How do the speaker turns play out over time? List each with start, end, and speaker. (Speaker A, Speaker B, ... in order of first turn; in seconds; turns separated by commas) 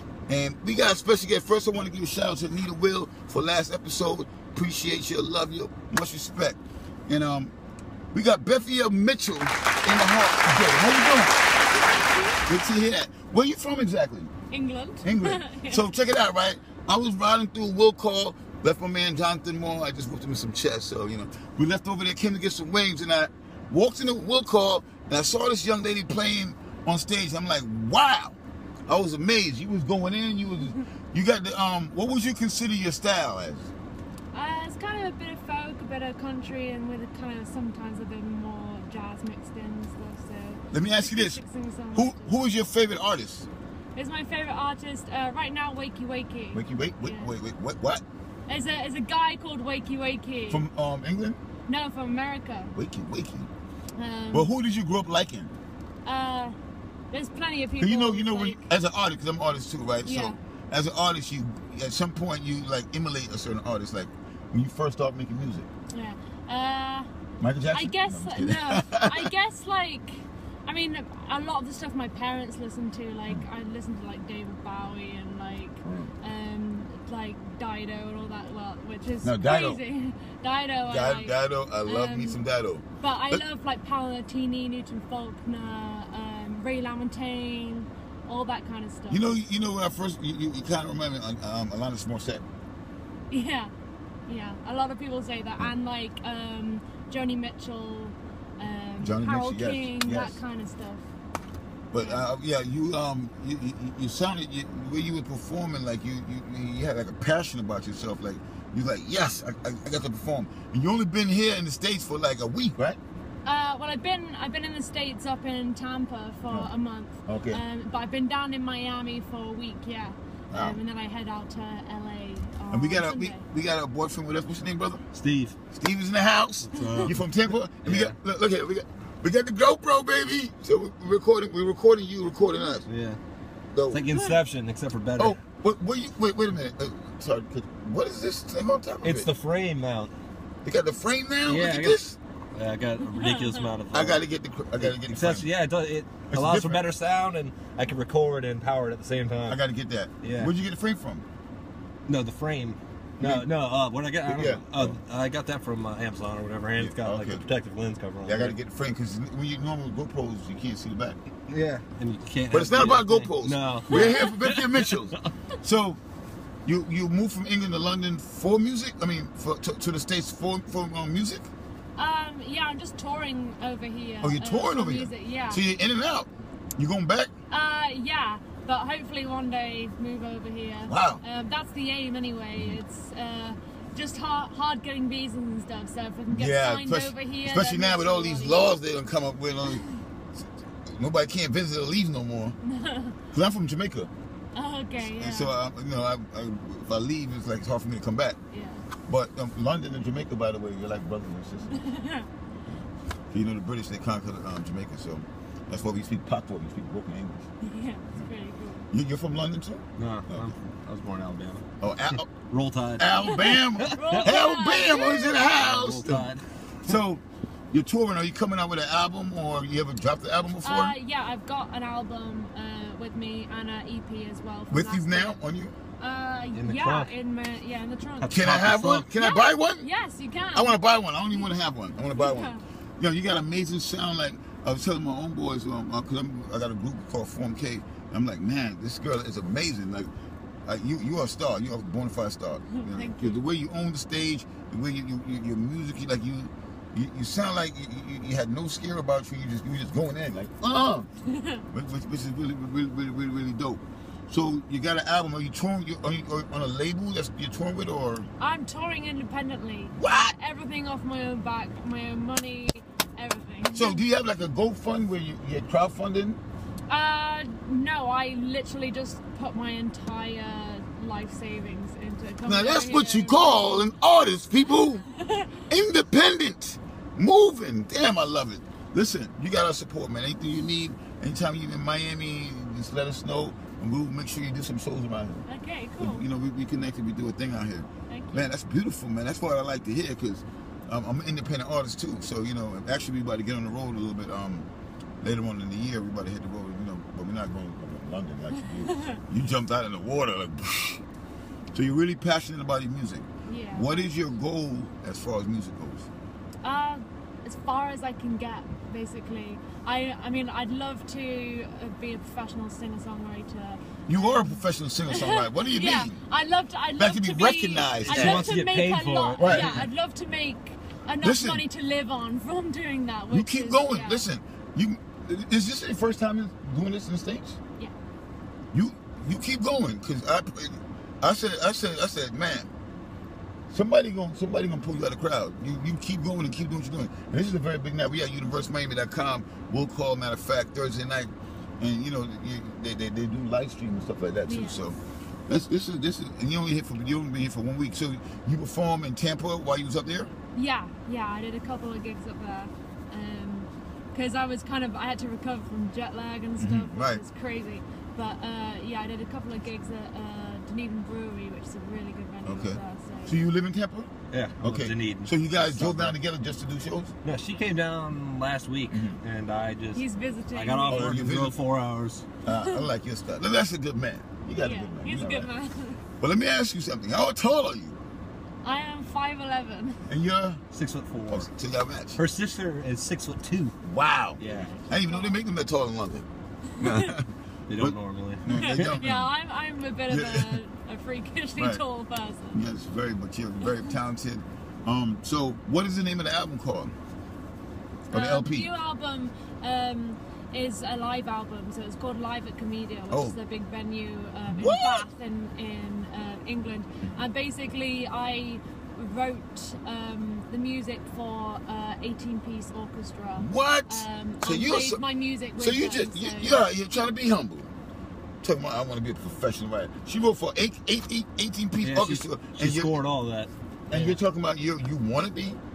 Speaker A: 0.3-7.5, Speaker A: 8.1-11.4, Speaker B: 11.6-12.5, Speaker A: 12.4-14.3, Speaker B: 14.5-15.9, Speaker A: 15.0-33.7, Speaker B: 34.3-42.4, Speaker A: 40.7-41.4, Speaker A: 41.9-43.5, Speaker B: 43.9-47.3, Speaker A: 46.5-48.0, Speaker B: 48.5-50.6, Speaker A: 50.5-51.4, Speaker B: 51.7-52.7, Speaker A: 52.7-53.5, Speaker B: 54.0-54.5, Speaker A: 54.3-55.6, Speaker B: 56.0-56.5, Speaker B: 57.1-58.7, Speaker A: 57.8-65.7, Speaker B: 60.0-60.4, Speaker B: 65.9-67.1, Speaker A: 67.4-69.3, Speaker B: 67.7-82.4, Speaker A: 75.8-76.1, Speaker A: 79.2-79.8, Speaker A: 80.8-83.4, Speaker B: 83.0-89.3, Speaker A: 89.1-92.5, Speaker B: 93.3-93.7, Speaker B: 94.3-101.1, Speaker A: 99.0-100.4, Speaker A: 101.9-113.0, Speaker B: 101.9-102.3, Speaker B: 113.4-123.4, Speaker A: 117.2-117.6, Speaker A: 120.5-120.8, Speaker A: 122.7-125.0, Speaker C: 125.1-125.6, Speaker A: 125.7-132.9, Speaker C: 126.7-128.2, Speaker C: 132.9-133.2, Speaker A: 133.7-134.3, Speaker C: 133.9-135.4, Speaker A: 135.2-139.3, Speaker C: 139.0-140.1, Speaker A: 140.6-142.2, Speaker C: 141.4-149.6, Speaker B: 143.0-143.7, Speaker A: 143.9-145.5, Speaker A: 146.3-146.8, Speaker A: 149.4-151.2, Speaker C: 150.2-150.5, Speaker C: 152.1-158.6, Speaker A: 153.2-153.5, Speaker A: 154.2-155.0, Speaker A: 156.8-157.4, Speaker A: 158.2-161.2, Speaker C: 161.5-165.2, Speaker A: 162.5-166.0, Speaker B: 163.9-164.3, Speaker A: 166.6-171.5, Speaker B: 171.9-175.6, Speaker A: 174.2-177.3, Speaker B: 177.5-188.7, Speaker A: 180.9-181.2, Speaker A: 186.3-189.8, Speaker B: 189.7-190.0, Speaker A: 190.3-192.6, Speaker B: 192.7-193.2, Speaker A: 193.3-194.1, Speaker B: 194.5-195.6, Speaker A: 195.0-198.4, Speaker B: 198.5-198.8, Speaker A: 199.1-201.9, Speaker B: 201.7-202.3, Speaker A: 202.6-207.5, Speaker B: 207.6-208.8, Speaker A: 208.9-210.5, Speaker C: 210.0-214.2, Speaker A: 211.8-212.3, Speaker A: 213.0-216.3, Speaker B: 213.2-215.5, Speaker C: 215.6-216.9, Speaker A: 216.8-220.9, Speaker B: 220.6-225.3, Speaker A: 224.7-225.7, Speaker B: 226.0-228.4, Speaker C: 226.5-227.1, Speaker C: 228.2-229.1, Speaker A: 228.3-229.9, Speaker B: 229.1-230.8, Speaker A: 230.5-240.1, Speaker B: 232.2-232.6, Speaker A: 240.7-251.1, Speaker B: 242.7-243.4, Speaker B: 251.3-251.6, Speaker A: 251.7-258.3, Speaker B: 258.4-264.0, Speaker A: 259.9-260.3, Speaker A: 263.7-266.4, Speaker B: 266.9-273.9, Speaker A: 272.4-275.0, Speaker B: 275.0-275.6, Speaker A: 275.7-285.4, Speaker B: 285.5-286.3, Speaker A: 286.0-294.7, Speaker B: 288.1-288.5, Speaker A: 295.2-301.0, Speaker B: 298.6-299.2, Speaker A: 301.7-306.1, Speaker B: 303.4-304.1, Speaker B: 306.6-324.3, Speaker A: 314.1-316.2, Speaker A: 317.0-318.5, Speaker C: 318.0-319.9, Speaker A: 319.4-319.8, Speaker A: 321.2-321.6, Speaker A: 323.3-327.6, Speaker A: 328.7-332.7, Speaker A: 333.7-350.3, Speaker B: 344.4-344.8, Speaker B: 350.5-363.4, Speaker A: 356.6-357.2, Speaker A: 362.4-367.1, Speaker C: 364.3-366.2, Speaker C: 367.2-370.0, Speaker A: 368.9-369.2, Speaker B: 369.9-371.1, Speaker C: 370.5-372.3, Speaker A: 370.9-371.6, Speaker A: 372.4-375.5, Speaker B: 372.5-372.9, Speaker B: 374.6-376.0, Speaker A: 376.2-378.0, Speaker B: 378.6-380.0, Speaker A: 380.1-380.6, Speaker C: 380.7-381.5, Speaker A: 381.3-382.2, Speaker C: 382.1-383.8, Speaker A: 383.8-386.3, Speaker C: 384.4-384.7, Speaker B: 384.4-385.4, Speaker B: 386.7-387.1, Speaker A: 386.8-389.1, Speaker C: 387.7-389.2, Speaker B: 388.5-392.6, Speaker A: 390.1-390.6, Speaker A: 391.6-391.8, Speaker A: 392.5-396.9, Speaker B: 393.6-393.9, Speaker B: 398.1-416.7, Speaker A: 398.1-398.7, Speaker A: 403.1-403.4, Speaker A: 404.5-405.1, Speaker A: 413.4-415.0, Speaker A: 415.6-417.7, Speaker A: 418.4-423.0, Speaker C: 421.8-424.2, Speaker A: 423.9-425.6